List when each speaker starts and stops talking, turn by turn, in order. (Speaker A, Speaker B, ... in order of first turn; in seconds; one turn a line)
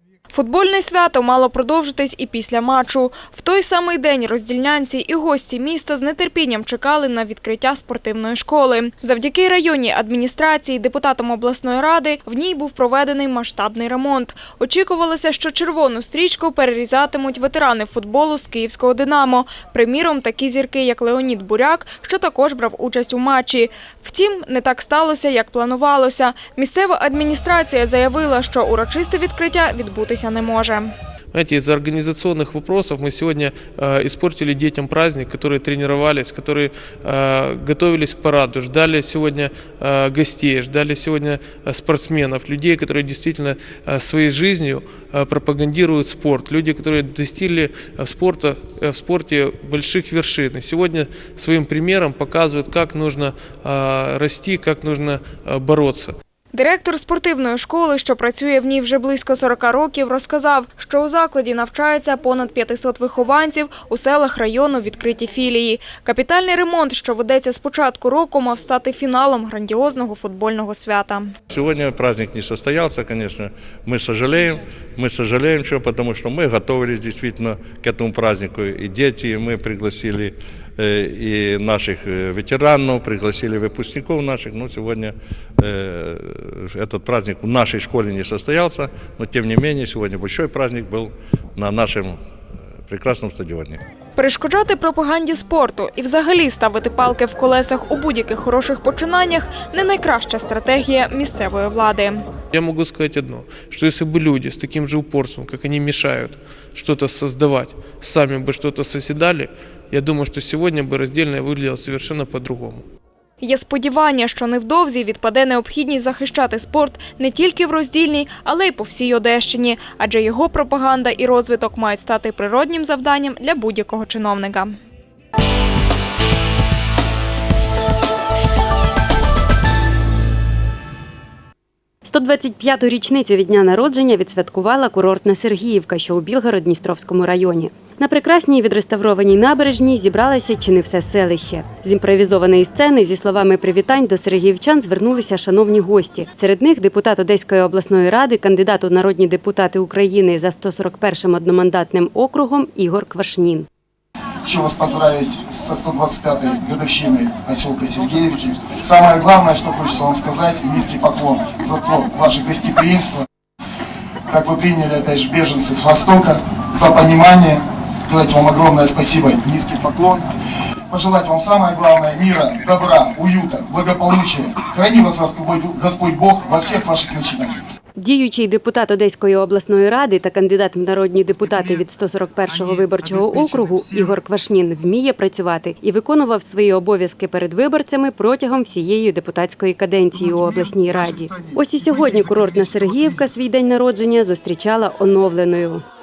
Speaker A: 0.3-30.9
Speaker B: 31.3-56.2
Speaker A: 56.5-71.3
Speaker C: 71.5-93.8
Speaker A: 94.2-102.2
Speaker B: 102.5-112.9
Speaker A: 113.4-124.8
Speaker D: 132.1-153.7
Speaker E: 154.4-163.2
Speaker E: 164.3-170.3
Speaker E: 170.9-177.7
Speaker D: 178.0-195.8
Speaker E: 190.1-193.4